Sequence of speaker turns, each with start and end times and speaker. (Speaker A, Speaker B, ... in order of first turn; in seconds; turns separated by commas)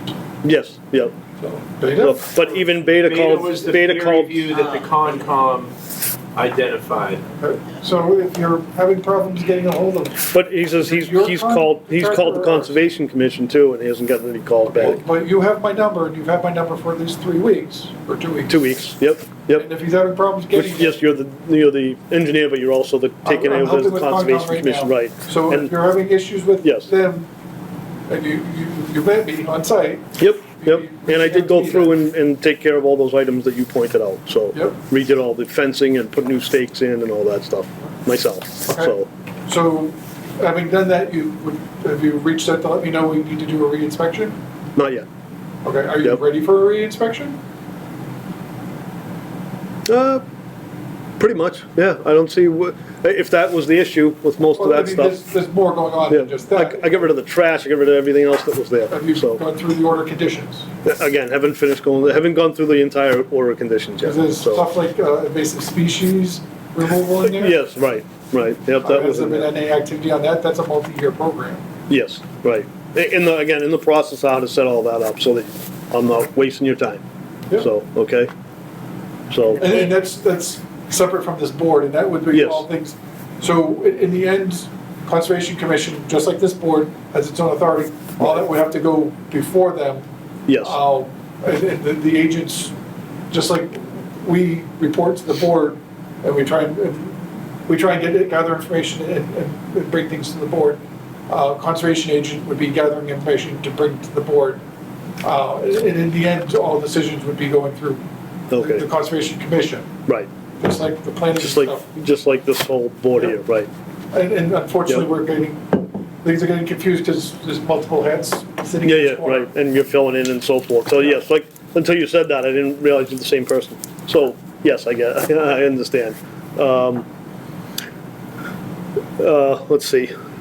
Speaker A: 0.4-1.1, Speaker B: 1.8-2.2, Speaker A: 1.9-4.6, Speaker C: 2.9-5.7, Speaker C: 6.3-7.2, Speaker B: 7.4-12.8, Speaker A: 10.3-15.0, Speaker B: 14.8-18.7, Speaker A: 18.5-19.7, Speaker B: 19.6-21.0, Speaker A: 20.5-25.7, Speaker B: 23.2-27.3, Speaker A: 26.6-26.9, Speaker B: 28.1-32.0, Speaker A: 30.2-39.1, Speaker B: 38.6-38.9, Speaker B: 39.5-44.4, Speaker A: 44.8-45.0, Speaker B: 45.6-47.4, Speaker A: 49.9-50.2, Speaker A: 51.2-55.2, Speaker B: 54.5-57.1, Speaker A: 56.1-59.4, Speaker B: 58.9-60.7, Speaker A: 60.8-64.7, Speaker B: 64.0-67.6, Speaker A: 67.2-69.5, Speaker B: 68.8-71.6, Speaker A: 71.9-77.0, Speaker A: 77.5-78.3, Speaker A: 79.3-79.7, Speaker B: 79.6-90.0, Speaker A: 82.3-82.7, Speaker A: 90.5-90.8, Speaker B: 90.6-92.7, Speaker B: 93.3-104.6, Speaker B: 105.2-108.0, Speaker A: 108.5-108.8, Speaker B: 108.5-109.9, Speaker B: 110.6-111.9, Speaker A: 111.4-113.7, Speaker B: 114.1-119.5, Speaker A: 118.8-127.0, Speaker A: 129.2-130.1